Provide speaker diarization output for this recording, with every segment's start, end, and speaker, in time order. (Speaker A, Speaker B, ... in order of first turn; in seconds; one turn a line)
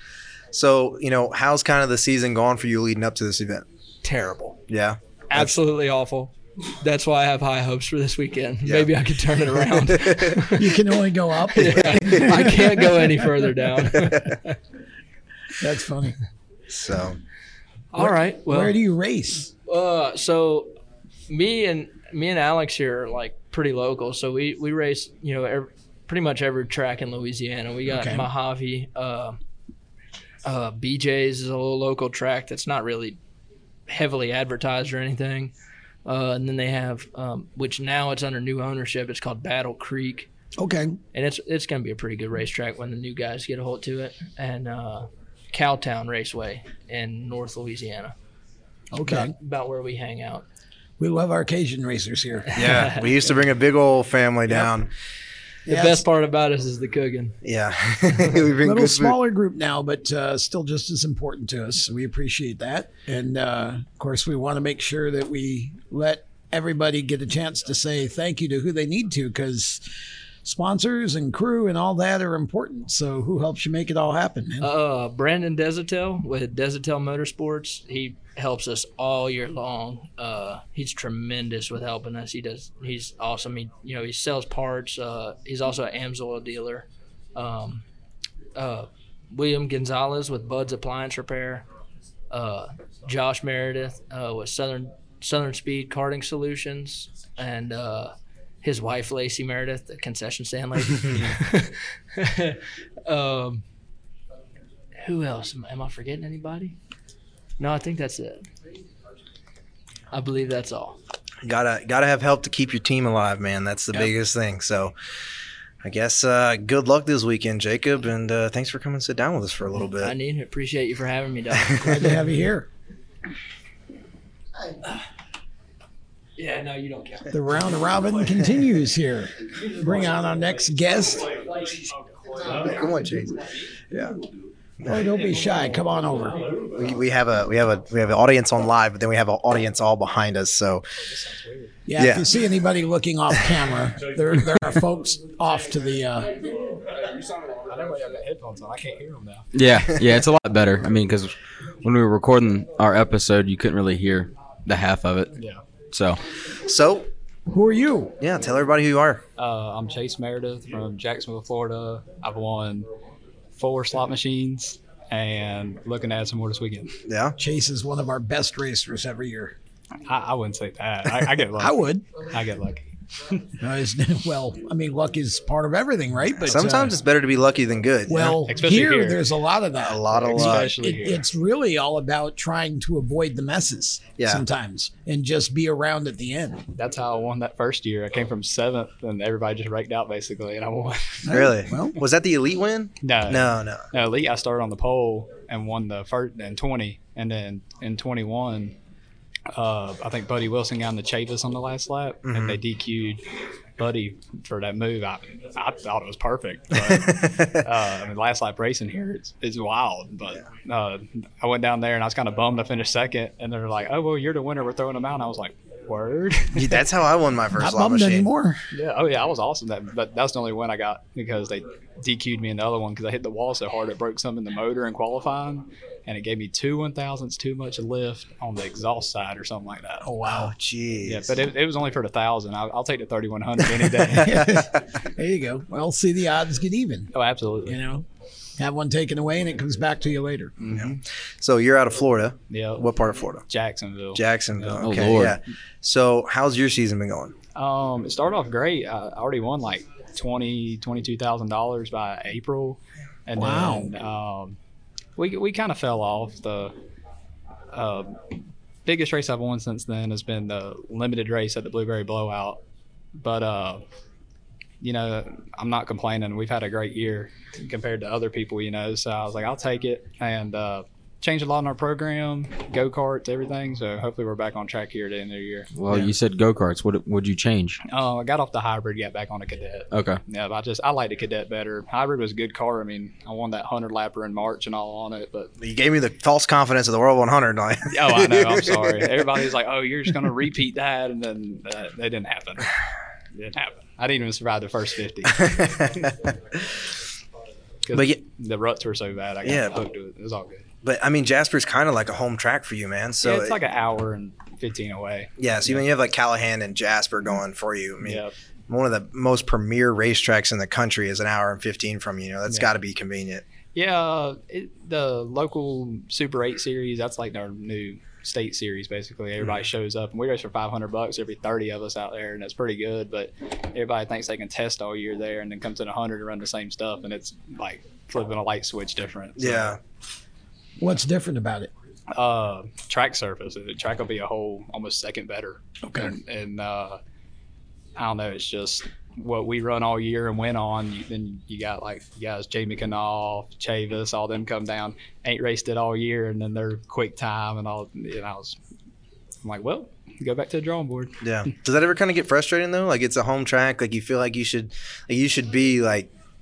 Speaker A: 0.5-3.6
Speaker B: 4.0-4.6
Speaker A: 4.7-5.5
Speaker B: 5.3-10.8
Speaker A: 8.6-8.9
Speaker A: 9.7-10.5
Speaker C: 10.5-13.2
Speaker B: 11.5-14.6
Speaker A: 11.8-12.5
Speaker C: 15.6-16.2
Speaker A: 16.7-17.2
Speaker B: 17.9-18.8
Speaker C: 17.9-19.5
Speaker B: 19.6-20.7
Speaker B: 21.3-29.4
Speaker C: 27.9-28.3
Speaker B: 30.4-33.2
Speaker B: 33.9-35.5
Speaker B: 36.0-40.3
Speaker C: 40.6-41.0
Speaker B: 41.1-48.1
Speaker C: 48.9-49.3
Speaker B: 49.0-50.4
Speaker C: 51.0-52.5
Speaker B: 52.5-53.1
Speaker A: 52.5-54.9
Speaker C: 55.7-56.0
Speaker B: 55.7-57.4
Speaker A: 57.4-59.2
Speaker C: 58.6-69.9
Speaker C: 70.4-74.7
Speaker B: 74.6-87.8
Speaker B: 88.5-91.6
Speaker B: 92.3-103.6
Speaker B: 105.0-106.8
Speaker B: 107.6-108.5
Speaker B: 110.1-111.0
Speaker A: 111.4-114.9
Speaker A: 115.8-120.1
Speaker B: 120.0-121.9
Speaker A: 121.7-122.0
Speaker C: 121.8-122.7
Speaker B: 126.4-127.3
Speaker C: 127.3-131.6
Speaker A: 132.5-133.4
Speaker A: 133.9-134.2
Speaker C: 134.8-136.6
Speaker A: 136.7-140.8
Speaker D: 141.0-141.7
Speaker C: 141.8-146.4
Speaker A: 142.0-142.2
Speaker D: 147.6-149.5
Speaker E: 149.5-155.4
Speaker A: 149.9-150.2
Speaker D: 155.3-155.6
Speaker E: 155.9-156.2
Speaker A: 156.5-157.1
Speaker C: 157.5-158.2
Speaker A: 158.2-159.2
Speaker D: 159.3-162.9
Speaker D: 163.5-167.0
Speaker A: 167.1-167.3
Speaker C: 167.3-169.6
Speaker D: 170.0-173.4
Speaker C: 171.6-172.0
Speaker C: 173.6-177.0
Speaker A: 176.5-178.4
Speaker C: 178.1-186.7
Speaker D: 178.5-179.2
Speaker A: 179.8-180.7
Speaker D: 180.1-181.2
Speaker D: 186.7-191.3
Speaker C: 191.2-192.0
Speaker A: 191.3-193.8
Speaker D: 193.0-198.7
Speaker D: 199.5-203.2
Speaker A: 202.2-202.6
Speaker D: 203.8-216.8
Speaker A: 206.9-207.6
Speaker A: 216.5-218.3
Speaker C: 217.6-218.6
Speaker D: 218.7-230.1
Speaker C: 230.0-230.5
Speaker A: 230.4-231.3
Speaker D: 231.0-234.5
Speaker A: 234.0-234.8
Speaker C: 234.2-237.1
Speaker D: 237.1-237.8
Speaker C: 237.6-238.0
Speaker C: 238.6-240.5
Speaker D: 240.6-241.0
Speaker A: 240.7-243.4
Speaker D: 242.5-242.9
Speaker D: 243.5-244.9
Speaker A: 244.1-247.3
Speaker E: 244.8-245.4
Speaker D: 247.5-254.6
Speaker C: 253.3-253.9
Speaker D: 255.2-256.7
Speaker D: 257.7-258.2
Speaker D: 258.8-262.6
Speaker D: 263.1-263.8
Speaker D: 264.8-276.0
Speaker E: 275.7-277.8
Speaker D: 277.8-285.5
Speaker E: 279.9-280.2
Speaker A: 285.6-289.1
Speaker D: 287.9-292.7
Speaker D: 293.3-295.9
Speaker A: 295.3-296.6
Speaker D: 297.8-300.7
Speaker A: 297.9-298.2
Speaker A: 299.4-299.7
Speaker A: 300.8-303.6
Speaker D: 303.2-305.9
Speaker A: 305.4-313.4
Speaker D: 308.0-308.3
Speaker D: 313.7-329.8
Speaker A: 329.4-329.8
Speaker C: 330.8-331.7
Speaker D: 332.1-337.0
Speaker C: 335.9-336.1
Speaker D: 337.9-348.6
Speaker D: 349.4-351.2
Speaker A: 351.2-356.1